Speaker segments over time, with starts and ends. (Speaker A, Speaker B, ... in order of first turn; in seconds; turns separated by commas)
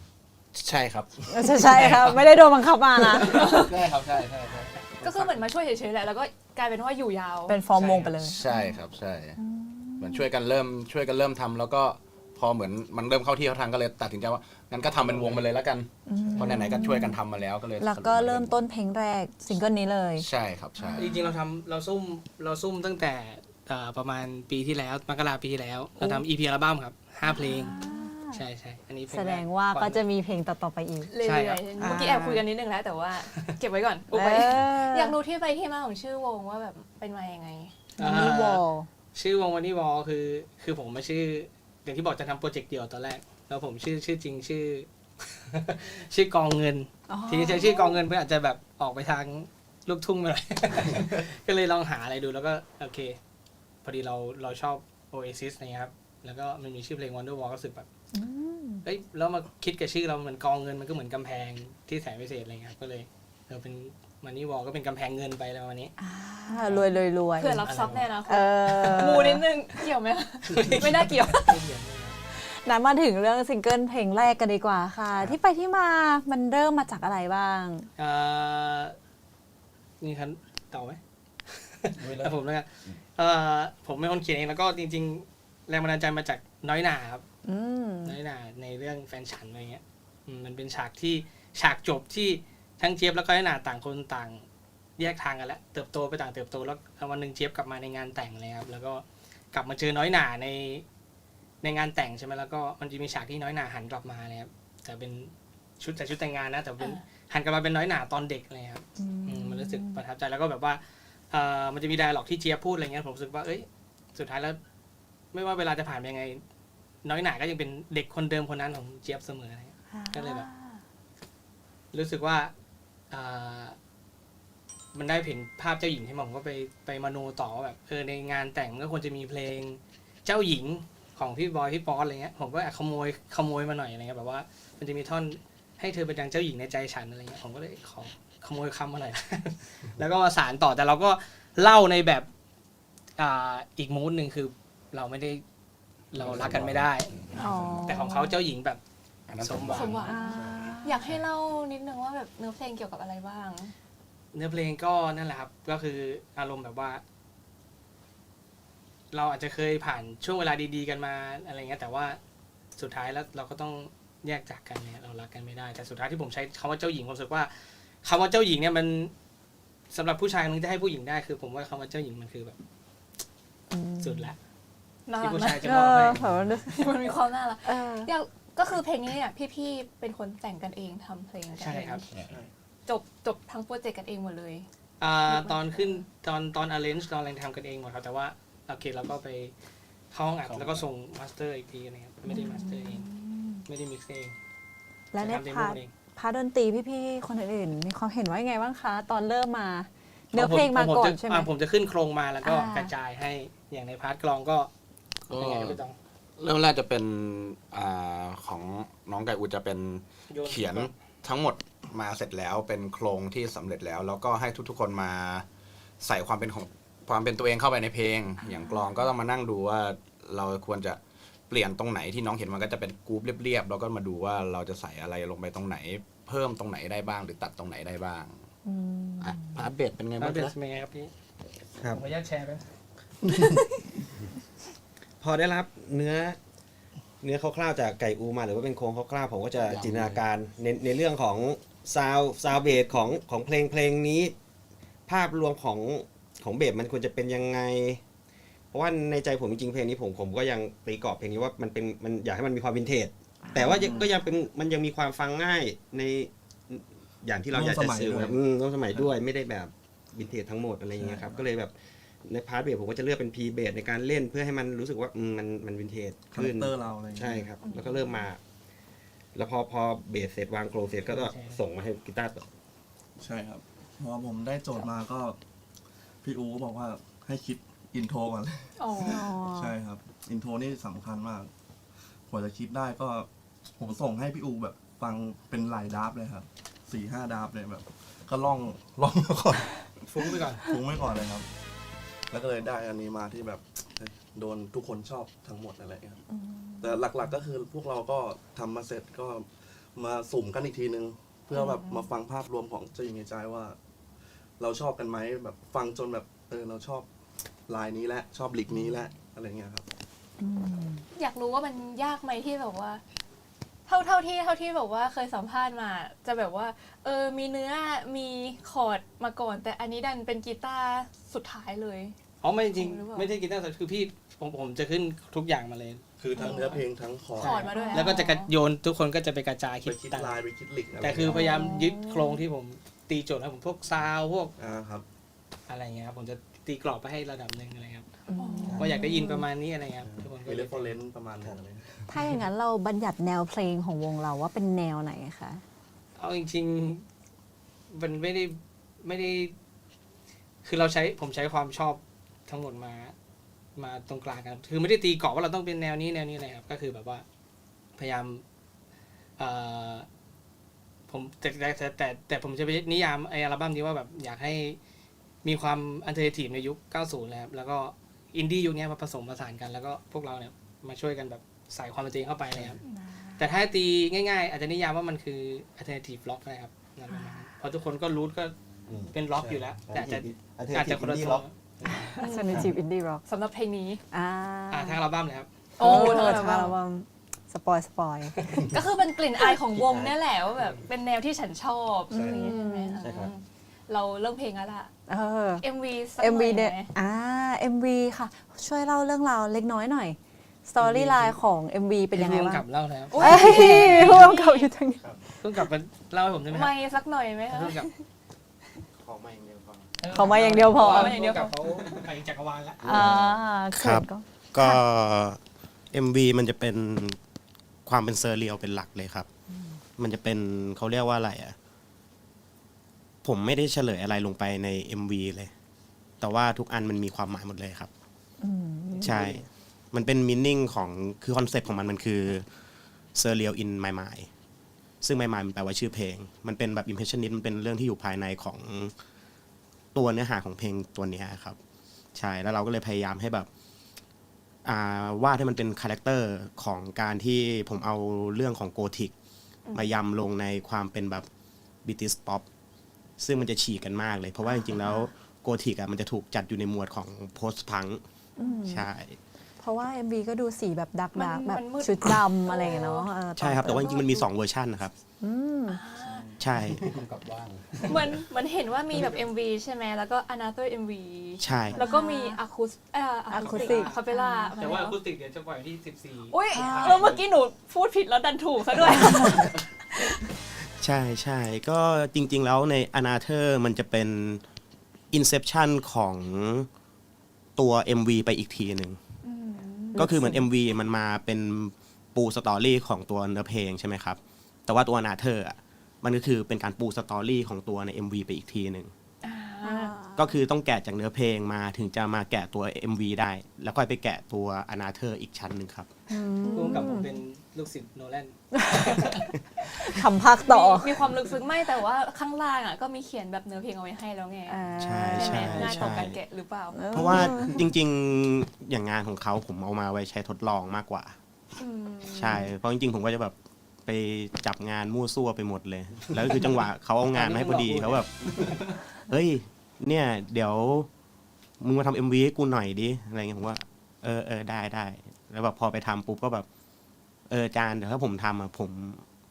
Speaker A: 0.5-2.1, Speaker B: 1.3-3.7, Speaker A: 3.0-4.8, Speaker C: 5.0-7.6, Speaker B: 7.5-8.8, Speaker D: 7.8-8.1, Speaker A: 8.1-9.4, Speaker B: 9.4-10.3, Speaker A: 10.0-18.6, Speaker D: 14.8-15.4, Speaker B: 16.1-17.2, Speaker B: 17.8-20.3, Speaker A: 20.2-21.1, Speaker B: 20.8-21.1, Speaker D: 20.9-30.0, Speaker B: 27.3-28.4, Speaker C: 27.4-27.9, Speaker B: 29.1-31.1, Speaker C: 31.1-37.9, Speaker D: 31.2-32.0, Speaker B: 31.8-32.4, Speaker B: 34.1-35.2, Speaker D: 38.0-38.6, Speaker B: 38.0-38.9, Speaker D: 39.1-53.2, Speaker B: 47.1-48.0, Speaker D: 53.8-57.9, Speaker B: 58.1-58.8, Speaker D: 58.8-65.9, Speaker B: 66.0-67.7, Speaker C: 66.5-66.8, Speaker C: 67.3-71.6, Speaker D: 67.6-68.0, Speaker B: 68.2-69.5, Speaker D: 70.5-72.2, Speaker B: 72.3-77.9, Speaker D: 78.0-79.0, Speaker D: 80.0-87.2, Speaker A: 82.0-82.3, Speaker B: 87.4-88.2, Speaker D: 88.0-94.4, Speaker D: 95.0-100.8, Speaker D: 101.6-114.6, Speaker B: 109.0-110.0, Speaker D: 115.3-116.4, Speaker D: 117.0-120.5, Speaker B: 119.9-120.8, Speaker D: 121.9-122.5, Speaker D: 123.1-123.8, Speaker D: 124.9-142.3, Speaker D: 143.2-145.4, Speaker D: 146.1-147.1, Speaker A: 146.2-147.8, Speaker B: 147.4-148.4, Speaker D: 147.8-148.8, Speaker A: 149.3-150.1, Speaker D: 149.4-150.1, Speaker C: 149.7-153.7, Speaker B: 150.1-151.0, Speaker D: 154.3-157.0, Speaker D: 159.1-162.2, Speaker D: 162.8-167.5, Speaker D: 168.0-169.1, Speaker D: 169.9-172.6, Speaker B: 173.7-174.3, Speaker D: 174.0-174.4, Speaker C: 175.1-175.8, Speaker D: 175.2-176.2, Speaker B: 175.6-178.1, Speaker C: 176.6-182.1, Speaker D: 181.6-182.0, Speaker C: 182.8-184.7, Speaker D: 185.0-189.5, Speaker C: 185.3-186.0, Speaker D: 190.1-193.1, Speaker A: 190.4-190.8, Speaker B: 192.3-193.6, Speaker D: 193.7-194.3, Speaker B: 195.1-201.5, Speaker D: 195.2-195.9, Speaker D: 200.3-204.7, Speaker B: 202.4-202.9, Speaker D: 205.2-205.9, Speaker A: 205.3-205.8, Speaker A: 206.4-215.4, Speaker D: 210.3-210.9, Speaker A: 216.0-228.4, Speaker B: 218.4-219.0, Speaker B: 228.6-229.4, Speaker A: 229.2-230.5, Speaker D: 230.2-231.1, Speaker E: 231.8-232.0, Speaker D: 231.9-232.7, Speaker E: 235.2-236.4, Speaker E: 237.2-244.3, Speaker A: 239.6-240.2, Speaker E: 245.1-248.0, Speaker E: 248.7-261.7, Speaker B: 253.5-254.1, Speaker F: 253.7-254.1, Speaker F: 257.5-258.4, Speaker F: 260.9-261.4, Speaker E: 262.2-268.4, Speaker F: 266.3-267.5, Speaker C: 267.6-268.3, Speaker E: 269.3-272.5, Speaker D: 271.0-271.6, Speaker F: 273.2-275.4, Speaker F: 276.2-281.5, Speaker C: 278.8-279.3, Speaker B: 279.0-279.8, Speaker F: 282.3-291.5, Speaker D: 290.1-290.7, Speaker F: 292.3-296.2, Speaker B: 296.4-297.0, Speaker F: 296.8-303.8, Speaker C: 301.5-302.0, Speaker F: 304.6-307.1, Speaker F: 307.7-309.8, Speaker B: 310.4-311.0, Speaker C: 311.1-313.0, Speaker C: 313.9-322.1, Speaker D: 322.4-326.0, Speaker C: 322.7-323.3, Speaker F: 326.2-327.8, Speaker C: 326.3-328.5, Speaker D: 327.4-330.4, Speaker B: 327.8-328.1, Speaker F: 329.8-331.4, Speaker D: 331.0-334.5, Speaker C: 331.3-331.9, Speaker B: 331.3-332.1, Speaker F: 334.6-335.0, Speaker D: 335.7-338.1, Speaker B: 338.3-339.4, Speaker C: 338.3-338.9, Speaker D: 338.7-341.0, Speaker F: 340.0-342.1, Speaker B: 342.1-345.6, Speaker D: 346.2-347.0, Speaker D: 347.9-349.5, Speaker D: 350.6-353.1, Speaker D: 353.8-357.2, Speaker D: 358.0-358.4, Speaker D: 359.4-360.1, Speaker D: 361.1-364.8, Speaker D: 365.4-372.8, Speaker B: 373.1-373.4, Speaker D: 373.4-378.5, Speaker D: 379.1-382.1, Speaker F: 379.3-380.1, Speaker E: 379.9-381.4, Speaker C: 382.1-382.7, Speaker B: 382.1-383.2, Speaker C: 383.3-384.0, Speaker B: 384.1-385.0, Speaker D: 384.7-386.4, Speaker C: 385.8-386.8, Speaker B: 385.8-388.8, Speaker C: 388.7-394.9, Speaker E: 389.6-390.1, Speaker B: 392.1-393.1, Speaker E: 392.1-393.3, Speaker B: 395.1-395.6, Speaker C: 395.6-396.9, Speaker B: 396.2-405.0, Speaker D: 400.8-401.4, Speaker D: 402.1-403.2, Speaker C: 403.1-404.7, Speaker D: 405.4-406.7, Speaker C: 406.5-408.0, Speaker D: 407.5-407.9, Speaker A: 409.0-409.9, Speaker D: 410.0-412.9, Speaker B: 410.1-411.2, Speaker C: 410.8-411.8, Speaker B: 412.8-414.8, Speaker G: 412.8-417.2, Speaker G: 417.9-419.3, Speaker G: 420.0-421.6, Speaker G: 423.2-425.5, Speaker G: 426.2-427.9, Speaker B: 428.4-429.2, Speaker G: 429.0-432.5, Speaker G: 433.1-434.3, Speaker G: 435.0-438.9, Speaker G: 439.9-441.6, Speaker G: 442.1-443.5, Speaker G: 444.6-449.1, Speaker G: 449.7-451.3, Speaker G: 451.8-452.4, Speaker G: 453.2-458.0, Speaker B: 458.4-458.9, Speaker G: 458.6-459.2, Speaker B: 459.6-464.1, Speaker C: 461.1-464.2, Speaker G: 463.3-464.9, Speaker B: 465.2-465.8, Speaker C: 465.7-466.3, Speaker F: 466.1-467.0, Speaker G: 466.4-466.8, Speaker A: 466.7-468.1, Speaker C: 467.9-475.0, Speaker G: 471.4-471.8, Speaker B: 471.8-472.4, Speaker B: 473.3-474.5, Speaker D: 473.3-474.0, Speaker D: 474.6-477.2, Speaker C: 476.3-480.2, Speaker B: 476.5-477.1, Speaker G: 480.8-484.4, Speaker G: 485.1-486.7, Speaker G: 487.6-489.0, Speaker C: 489.3-489.9, Speaker B: 489.9-490.4, Speaker G: 489.9-498.9, Speaker C: 499.2-500.0, Speaker B: 499.6-500.2, Speaker G: 500.1-505.9, Speaker B: 506.1-507.1, Speaker D: 506.5-509.3, Speaker B: 508.6-509.1, Speaker B: 509.8-511.0, Speaker C: 510.4-516.9, Speaker B: 514.5-516.0, Speaker G: 514.8-516.2, Speaker B: 516.7-517.6, Speaker G: 516.9-521.2, Speaker C: 521.6-522.4, Speaker G: 522.0-528.1, Speaker B: 522.2-522.4, Speaker D: 527.1-528.8, Speaker G: 529.1-530.9, Speaker G: 531.6-536.5, Speaker G: 537.3-539.0